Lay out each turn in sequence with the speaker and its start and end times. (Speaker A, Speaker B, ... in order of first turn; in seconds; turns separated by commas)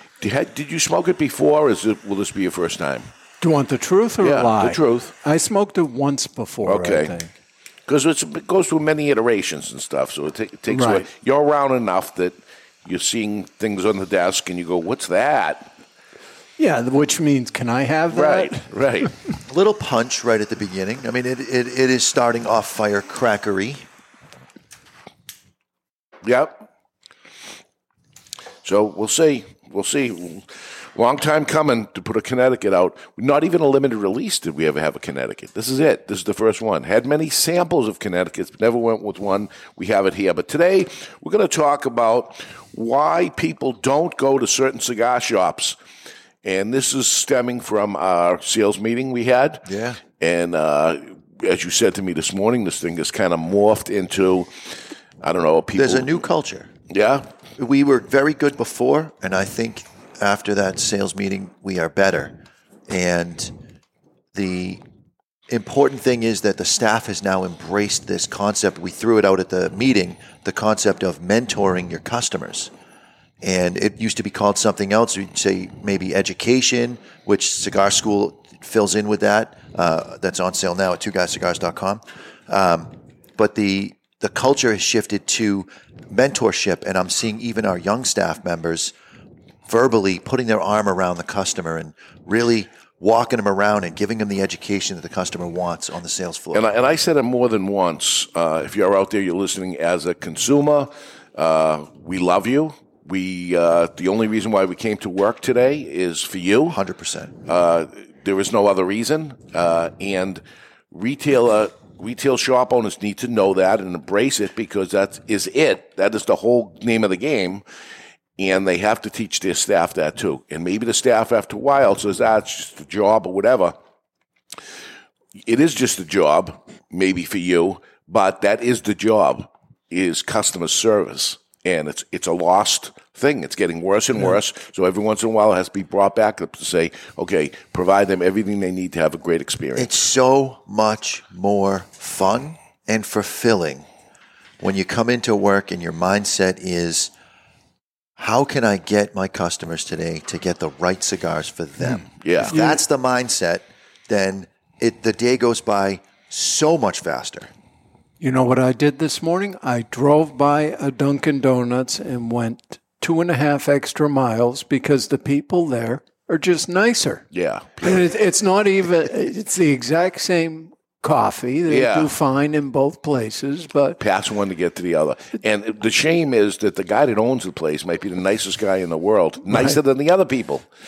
Speaker A: 0.2-3.1, Speaker B: 3.4-7.3, Speaker A: 4.2-5.1, Speaker A: 6.7-7.1, Speaker A: 7.9-15.7, Speaker B: 10.7-11.1, Speaker B: 16.6-18.6, Speaker A: 18.1-19.1, Speaker C: 19.5-23.8, Speaker A: 26.2-26.7, Speaker A: 28.6-45.8, Speaker A: 46.4-49.6, Speaker C: 49.6-50.0, Speaker A: 50.2-56.2, Speaker C: 55.7-56.7, Speaker A: 56.9-57.3, Speaker C: 57.6-62.4, Speaker C: 62.9-63.5, Speaker C: 64.3-64.8, Speaker C: 65.5-72.7, Speaker C: 73.4-88.9, Speaker C: 89.7-96.7, Speaker A: 96.5-106.8, Speaker C: 106.7-107.3, Speaker A: 107.5-117.6, Speaker A: 118.4-123.7, Speaker A: 125.4-140.0, Speaker C: 139.8-143.8, Speaker C: 144.6-147.1, Speaker C: 148.2-157.5, Speaker A: 152.2-152.6, Speaker B: 152.5-152.8, Speaker B: 158.2-167.2, Speaker A: 167.3-168.0, Speaker B: 167.8-174.0, Speaker A: 171.7-172.1, Speaker A: 174.0-180.7